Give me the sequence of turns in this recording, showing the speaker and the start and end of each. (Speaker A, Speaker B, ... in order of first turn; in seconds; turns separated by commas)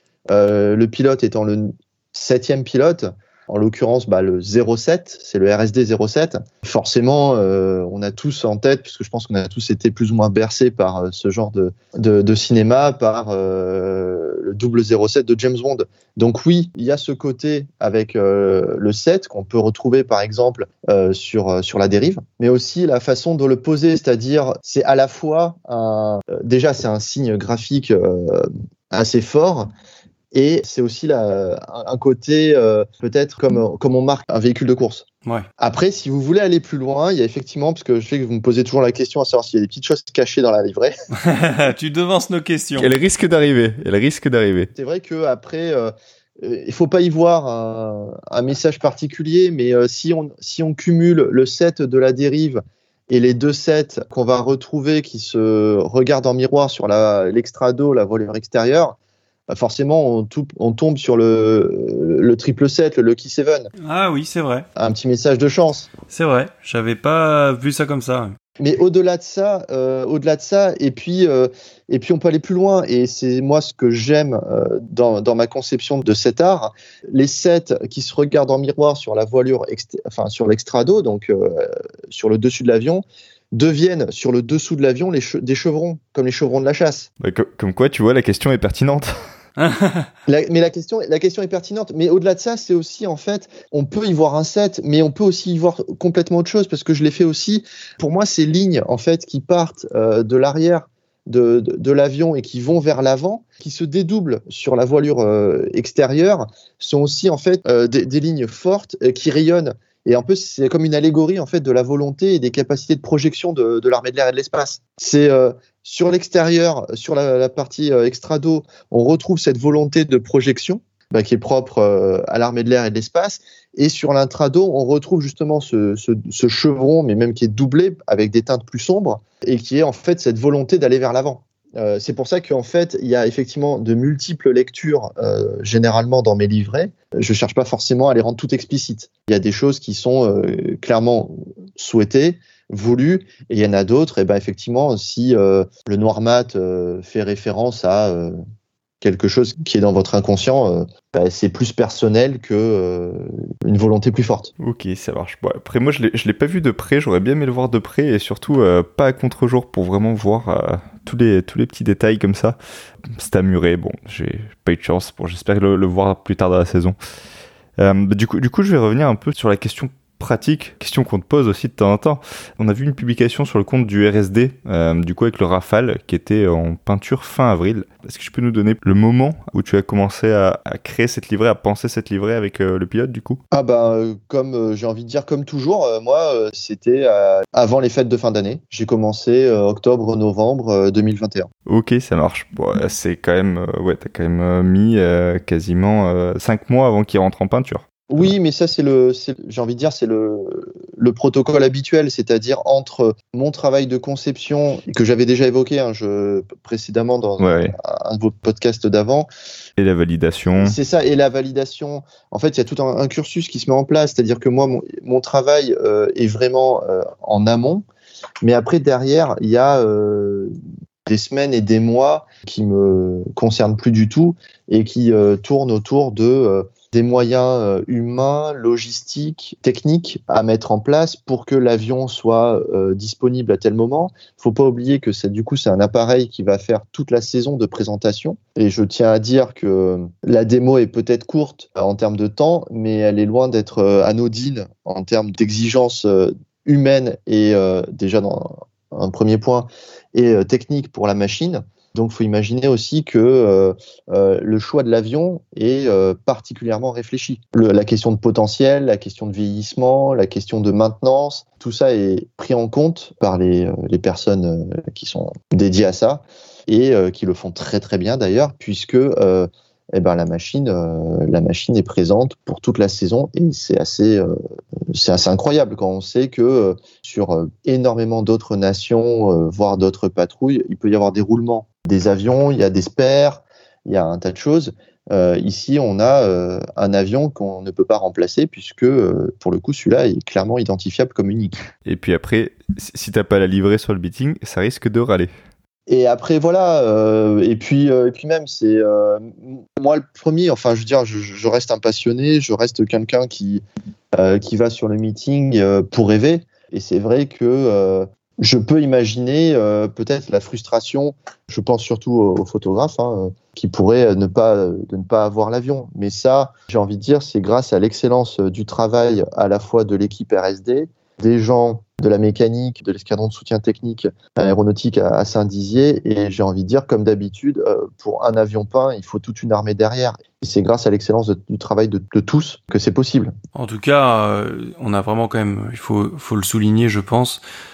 Speaker A: 0.3-29.7, Speaker A: 30.3-35.0, Speaker A: 35.6-40.9, Speaker B: 41.2-42.9, Speaker C: 42.8-44.7, Speaker A: 44.7-59.0, Speaker A: 59.5-63.7, Speaker B: 63.8-64.7, Speaker A: 64.8-65.9, Speaker B: 66.1-68.3, Speaker A: 68.6-87.1, Speaker C: 87.2-89.2, Speaker B: 89.6-90.1, Speaker A: 90.3-148.4, Speaker A: 149.0-154.5, Speaker C: 154.6-162.6, Speaker C: 163.1-166.9, Speaker C: 167.8-183.4, Speaker A: 183.5-191.5, Speaker C: 191.7-197.8, Speaker A: 198.1-209.3, Speaker C: 207.4-207.7, Speaker C: 209.8-210.8, Speaker A: 210.6-217.8, Speaker A: 218.4-220.5, Speaker A: 221.1-274.3, Speaker A: 274.9-291.6, Speaker C: 291.8-295.3, Speaker A: 295.9-303.6, Speaker A: 304.1-333.3, Speaker B: 333.5-337.4